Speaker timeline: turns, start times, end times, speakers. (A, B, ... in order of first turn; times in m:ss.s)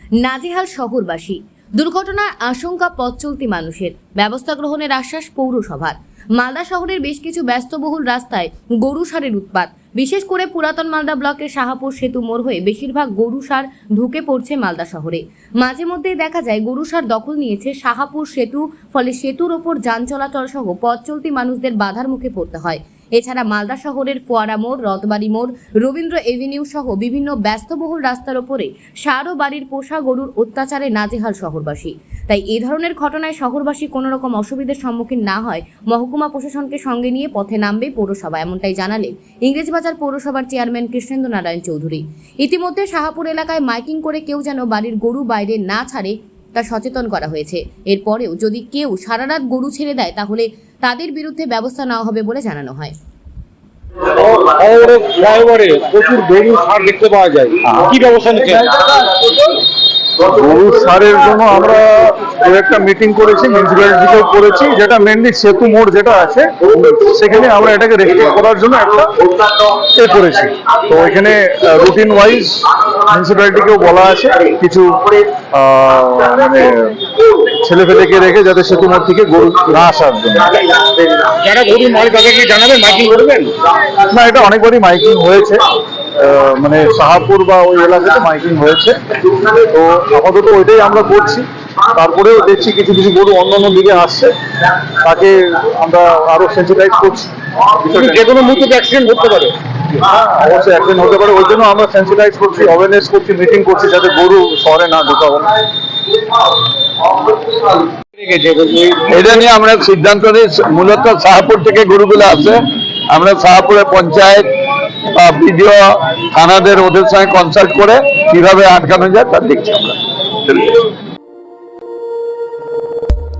0:00.2-0:52.9 A
0:54.0-0:58.7 B
0:57.6-0:58.0 C
0:58.5-0:59.3 C
1:00.2-1:09.1 C
1:09.8-1:17.0 C
1:17.5-1:20.6 C
1:21.3-1:23.5 B
1:24.0-1:25.6 C
1:26.2-1:29.0 C
1:29.6-1:34.3 C
1:35.0-1:37.3 C
1:37.8-1:38.2 C
1:37.9-1:39.6 B
1:40.0-1:45.5 C
1:48.2-1:49.1 B
1:49.1-1:54.4 D
1:55.1-2:00.0 D
2:00.5-2:00.7 D